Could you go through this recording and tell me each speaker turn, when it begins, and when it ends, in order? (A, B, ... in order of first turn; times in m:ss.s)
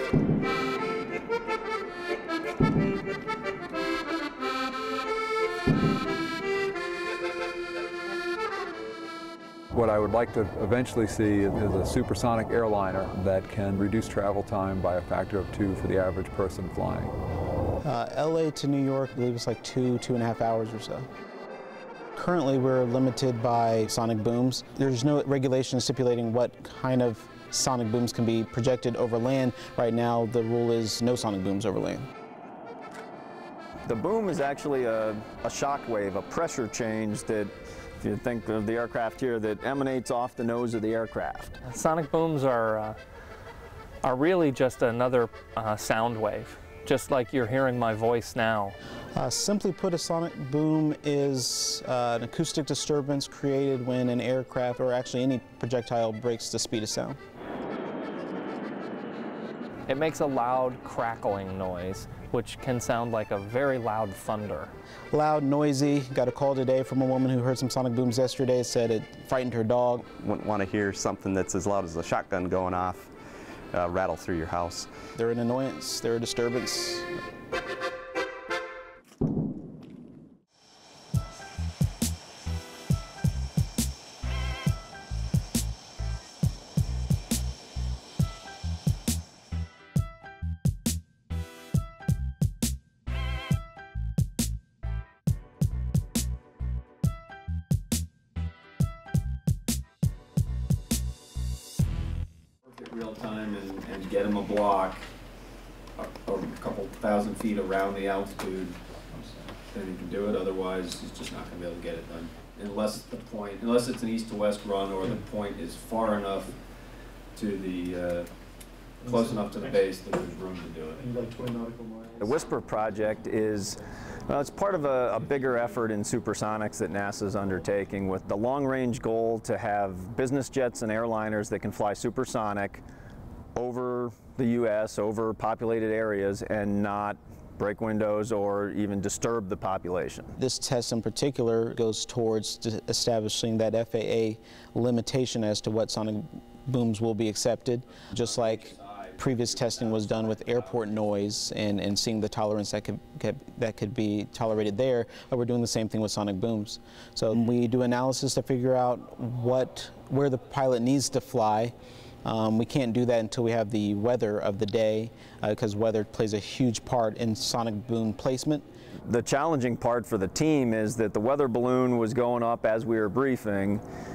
0:09.7-0:17.1 A
0:17.8-0:21.1 B
0:22.2-0:32.0 B
0:33.8-0:41.6 C
0:41.6-0:43.0 D
0:44.0-0:48.7 D
0:49.1-0:57.2 B
0:59.9-1:04.7 D
1:05.1-1:10.1 B
1:10.1-1:13.1 E
1:13.7-1:14.9 E
1:15.2-1:17.1 B
1:42.7-1:45.0 F
1:46.0-1:48.7 F
1:49.5-1:56.5 F
1:57.4-1:58.3 F
1:59.0-2:01.6 F
1:59.1-1:59.7 B
2:01.0-2:02.2 B
2:02.2-2:12.8 C
2:13.6-2:20.3 C
2:20.4-2:48.6 B
2:28.4-2:28.8 F
2:29.6-2:30.2 F
2:49.1-2:53.8 C